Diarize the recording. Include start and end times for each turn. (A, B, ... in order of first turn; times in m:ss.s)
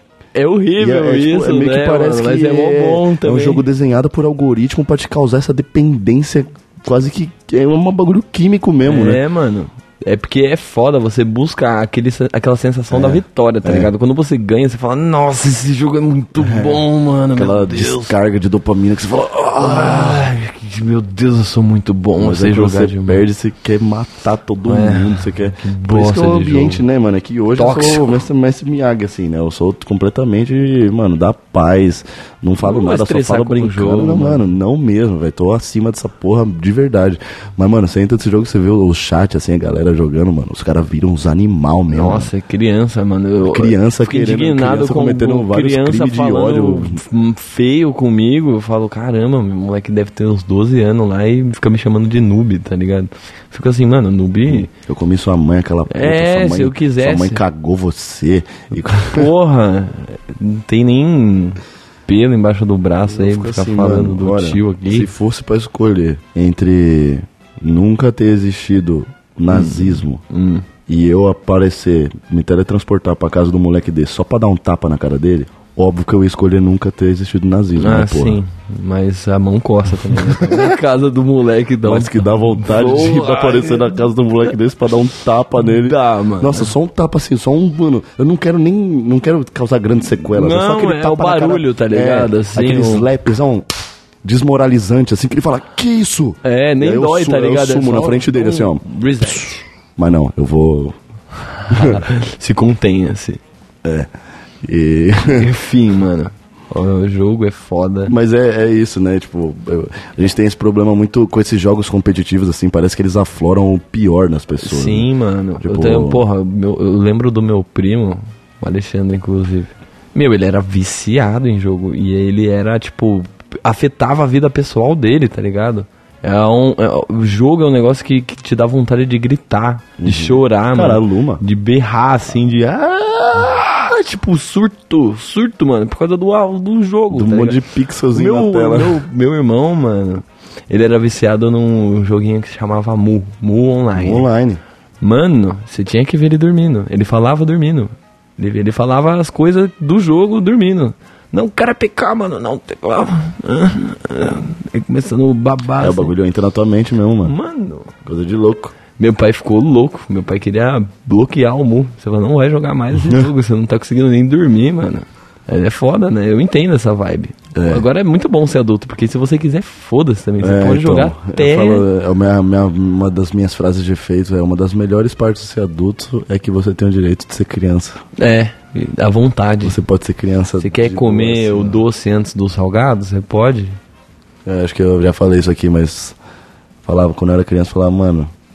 0:00.4-0:03.6 A
0:00.8-0:09.2 B
0:08.8-0:18.2 A
0:12.9-0:13.9 B
0:16.4-0:20.3 B
0:19.6-0:23.3 A
0:22.2-0:42.3 B
0:24.7-0:26.8 A
0:27.6-0:28.2 A
0:32.6-0:34.4 A
0:41.9-0:54.7 A
0:43.4-0:47.0 B
0:54.5-0:59.3 B
0:55.9-0:57.4 A
0:58.9-1:05.1 A
1:03.1-1:10.2 B
1:09.5-1:10.7 A
1:10.9-1:18.4 B
1:17.8-1:24.0 A
1:20.1-1:20.8 B
1:21.8-1:33.7 B
1:25.6-1:26.7 A
1:30.3-1:33.1 A
1:34.2-1:41.0 B
1:36.4-1:39.6 A
1:41.6-1:43.4 A
1:41.7-1:42.0 B
1:43.8-1:44.1 B
1:44.6-1:45.5 B
1:45.2-1:48.2 A
1:48.1-1:55.1 B
1:54.6-2:17.6 A
1:55.6-1:56.2 B
2:10.0-2:11.4 B
2:17.1-2:19.0 B
2:18.1-2:24.3 A
2:24.0-2:24.6 B
2:25.0-2:36.1 A
2:35.8-2:37.3 B
2:37.2-2:37.9 A
2:38.0-2:38.8 B
2:39.0-2:51.9 A
2:43.0-2:43.3 B
2:47.6-2:47.9 B
2:50.4-2:58.0 B
2:58.2-2:59.8 A
2:59.6-3:01.8 B
3:00.6-3:03.8 A
3:04.4-3:06.2 B
3:06.8-3:08.3 B